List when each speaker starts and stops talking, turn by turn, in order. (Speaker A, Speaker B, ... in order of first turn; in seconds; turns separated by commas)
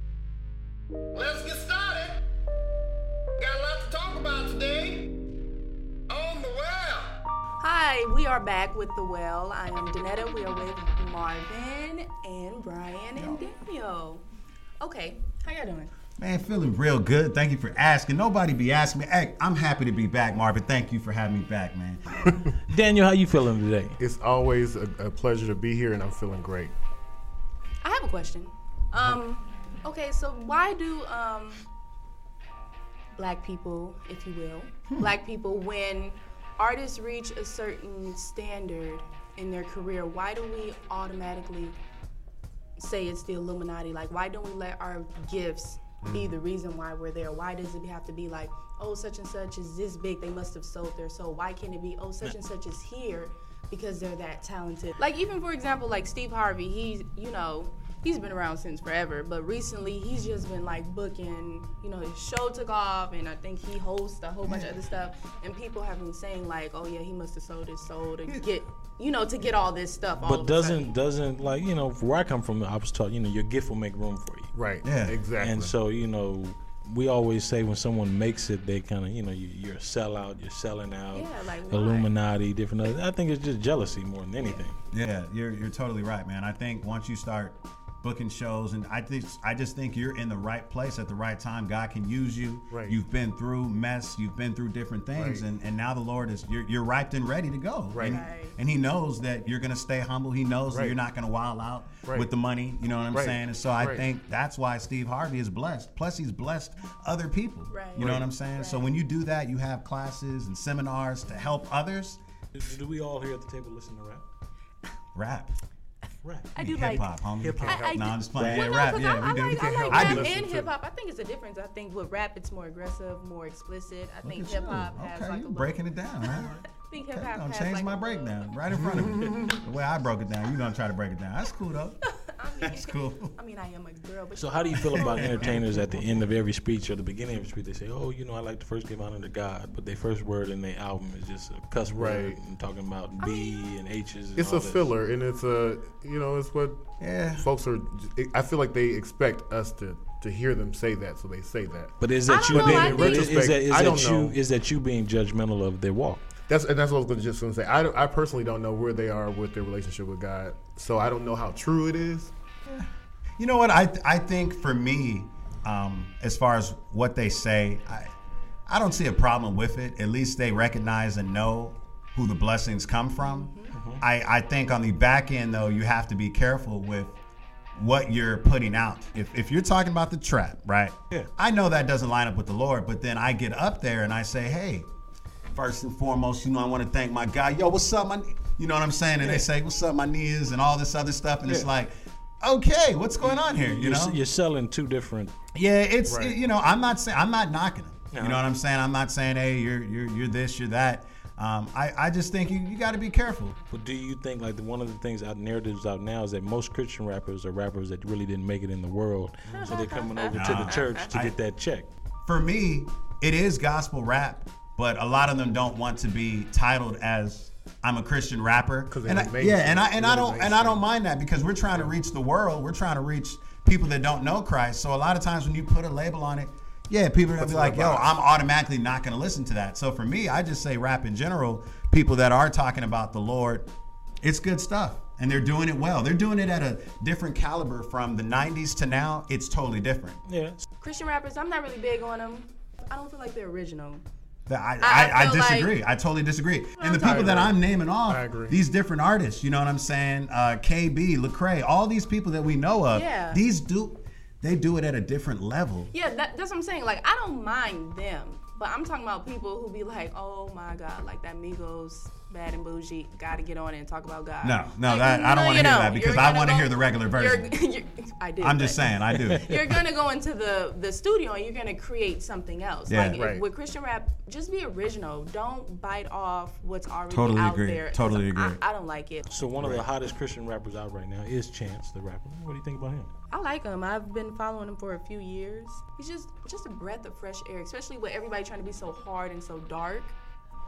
Speaker A: 1.1-2.2, Speaker B: 1.1-1.7, Speaker A: 3.4-5.1, Speaker B: 3.9-4.3, Speaker B: 6.1-6.5, Speaker A: 6.1-7.2, Speaker C: 7.6-14.2, Speaker D: 13.2-13.4, Speaker C: 14.8-15.9, Speaker D: 16.2-22.5, Speaker E: 22.7-24.0, Speaker B: 24.0-26.7, Speaker C: 27.8-31.6, Speaker C: 33.1-41.8, Speaker C: 42.8-70.9, Speaker D: 64.4-64.7, Speaker E: 70.2-74.5, Speaker B: 74.5-75.7, Speaker D: 74.8-75.2, Speaker E: 75.4-84.8, Speaker C: 81.1-82.1, Speaker D: 84.9-112.2, Speaker B: 92.7-93.0, Speaker B: 95.2-95.4, Speaker B: 97.9-98.2, Speaker C: 98.1-98.5, Speaker B: 100.7-100.9, Speaker B: 102.0-102.3, Speaker B: 103.1-104.0, Speaker C: 107.7-108.9, Speaker B: 108.0-108.3, Speaker E: 112.5-114.2, Speaker D: 115.1-115.5, Speaker E: 116.2-116.5, Speaker C: 116.5-128.4, Speaker D: 116.5-120.3, Speaker E: 117.4-118.8, Speaker B: 117.6-118.1, Speaker B: 119.4-120.7, Speaker D: 124.2-132.0, Speaker B: 128.7-129.5, Speaker C: 132.1-135.6, Speaker D: 132.6-133.3, Speaker E: 134.4-144.9, Speaker D: 134.9-135.5, Speaker B: 141.8-142.4, Speaker C: 143.2-143.7, Speaker B: 144.4-152.0, Speaker D: 147.0-147.4, Speaker E: 152.0-156.2, Speaker C: 152.2-153.4, Speaker B: 152.5-154.4, Speaker B: 156.5-162.3, Speaker D: 163.4-168.1, Speaker D: 168.7-177.2, Speaker C: 173.2-173.7, Speaker E: 173.7-174.0, Speaker D: 177.7-184.9, Speaker D: 185.5-194.2, Speaker E: 189.2-189.5, Speaker E: 191.4-191.7, Speaker E: 193.2-195.3, Speaker D: 195.5-203.6, Speaker B: 196.1-196.4, Speaker E: 198.1-198.4, Speaker E: 203.7-211.9, Speaker C: 209.5-211.1, Speaker D: 210.3-211.3, Speaker D: 212.2-233.7, Speaker B: 218.9-220.8, Speaker B: 221.7-222.0, Speaker B: 227.3-228.1, Speaker D: 234.2-240.2, Speaker E: 240.3-240.6, Speaker C: 240.8-244.0, Speaker D: 244.5-255.9, Speaker C: 244.8-245.8, Speaker C: 246.8-247.5, Speaker B: 247.0-248.6, Speaker C: 252.9-253.4, Speaker C: 255.9-279.3, Speaker D: 264.4-267.5, Speaker D: 268.4-269.5, Speaker D: 272.9-273.2, Speaker B: 273.1-273.4, Speaker D: 277.1-278.6, Speaker E: 279.3-283.1, Speaker B: 279.6-279.8, Speaker C: 283.3-290.1